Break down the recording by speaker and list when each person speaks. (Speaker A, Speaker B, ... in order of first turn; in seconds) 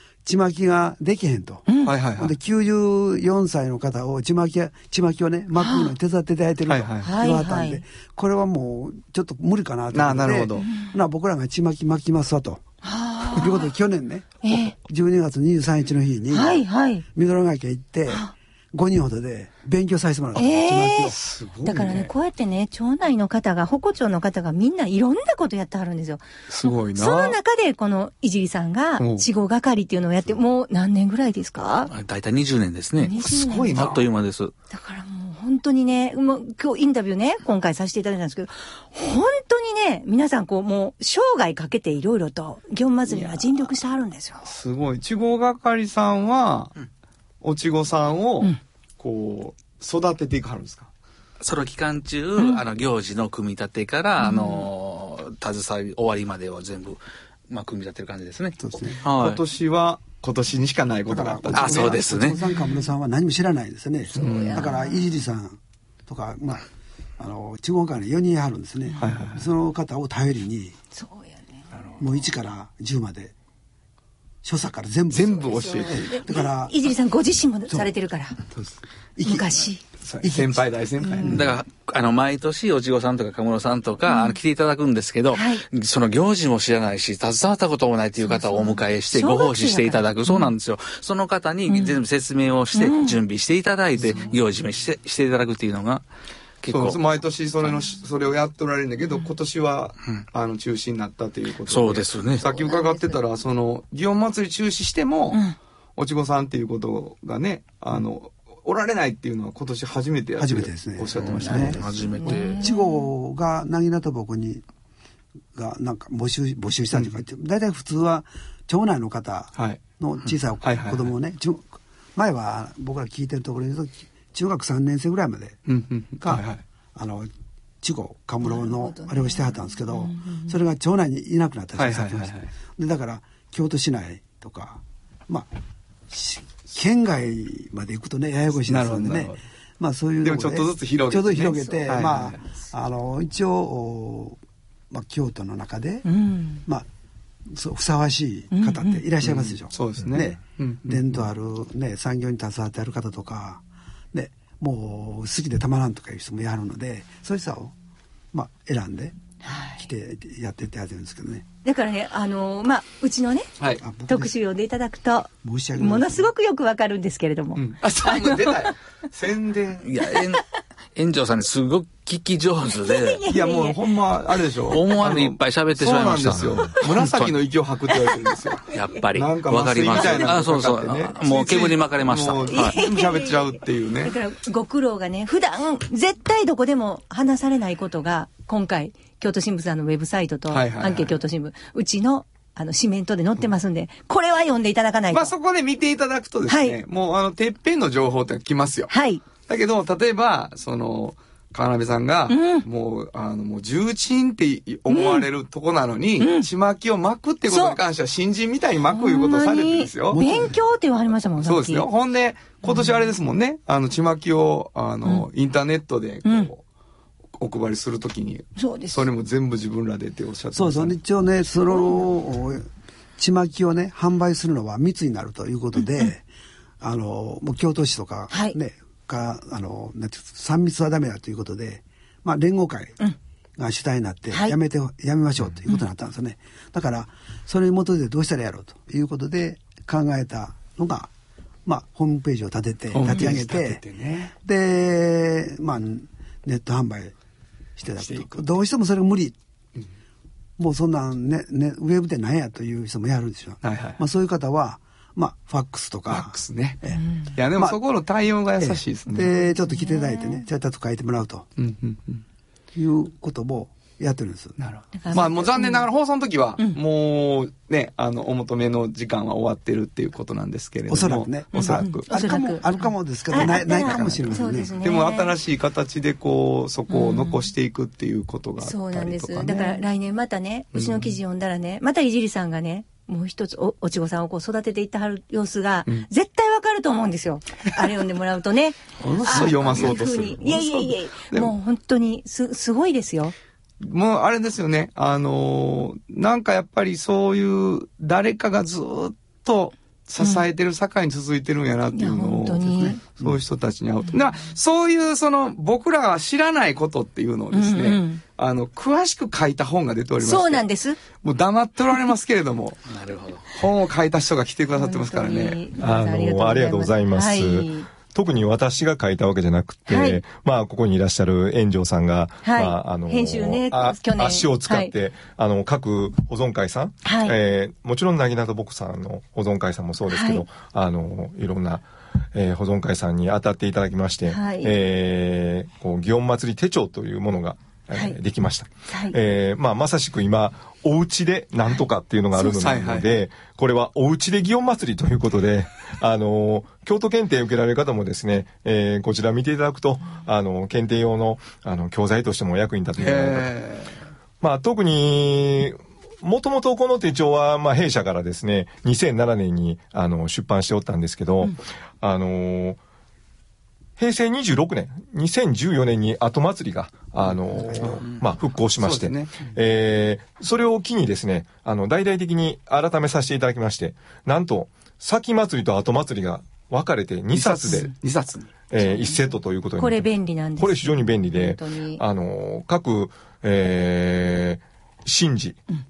Speaker A: 0.2-12.6, 13.3-21.2, 58.6-59.0, 61.1-66.6, 67.2-70.8, 72.0-73.3, 74.4-76.7, 78.5-79.6, 80.2-81.5, 110.4-114.6, 115.5-125.6, 126.2-127.3, 127.8-135.5, 136.1-144.4, 144.9-146.1, 147.5-153.6, 154.1-157.7, 158.3-159.2, 159.8-161.4, 163.8-164.3, 165.4-166.3, 210.1-210.6, 220.5-226.2, 226.8-233.0, 233.6-241.1, 241.6-243.8, 244.4-247.1, 247.8-249.3, 250.6-257.0, 258.6-261.5, 262.7-264.6, 270.9-274.7, 289.0-289.9
Speaker B: 1.7-1.9, 5.6-5.9, 7.0-7.8, 12.8-13.7, 14.4-14.7, 16.3-17.0, 20.4-31.9, 33.0-33.9, 34.7-44.5, 54.2-54.7, 64.1-65.0, 70.9-71.6, 75.6-78.4, 79.2-79.8, 84.1-84.4, 85.3-85.6, 88.2-90.5, 91.7-92.0, 92.7-93.2, 102.5-103.2, 111.5-113.1, 128.4-130.5, 141.6-141.9, 146.0-146.6, 148.5-149.0, 159.4-159.8, 161.6-163.5, 164.1-168.7, 172.8-173.8, 178.0-178.3, 182.5-195.3, 196.5-196.8, 198.9-199.2, 202.3-202.7, 204.9-205.3, 206.2-206.5, 207.5-207.8, 208.9-211.9, 212.6-213.1, 216.2-216.5, 218.6-219.1, 225.8-226.1, 228.3-228.6, 257.0-257.3, 259.6-260.4, 265.0-265.9, 271.6-275.3, 276.9-277.5, 278.6-293.3, 300.2-300.4, 301.9-303.0, 307.5-308.2, 310.2-311.0, 314.8-317.9, 319.9-320.2, 322.4-324.9, 327.0-327.4, 330.1-330.4, 334.3-334.8, 338.9-339.2, 378.8-379.2, 379.8-382.0
Speaker C: 1.8-2.3, 6.7-7.0, 9.9-10.7, 21.1-22.1, 26.5-27.4, 29.0-29.3, 33.2-34.0, 43.1-43.7, 44.4-46.7, 47.4-50.9, 59.0-62.2, 64.2-64.7, 69.0-69.5, 75.1-76.1, 80.0-81.4, 94.1-94.3, 96.7-105.4, 106.0-111.8, 119.5-119.8, 120.6-121.1, 125.7-126.6, 131.8-132.5, 138.7-139.4, 140.2-142.4, 149.2-151.2, 167.6-169.9, 173.3-184.1, 190.5-191.1, 195.1-198.9, 199.5-210.2, 211.4-216.6, 217.4-220.9, 242.9-244.3, 248.0-248.4, 253.6-254.0, 256.1-259.3, 261.6-262.2, 264.6-272.1, 274.8-279.8, 280.7-281.2, 289.0-291.5, 293.8-310.6, 311.2-312.8, 313.5-315.6, 342.4-343.2, 353.0-353.9, 368.8-369.5, 377.3-378.5
Speaker D: 31.9-34.5, 51.4-59.4, 61.5-62.4, 81.2-96.0, 96.6-97.0, 101.7-102.5, 111.4-112.6, 169.8-170.4, 170.9-173.2, 174.7-177.3, 178.7-182.8, 312.9-313.5
Speaker E: 315.8-353.5, 354.4-362.8, 364.0-377.9, 378.7-385.6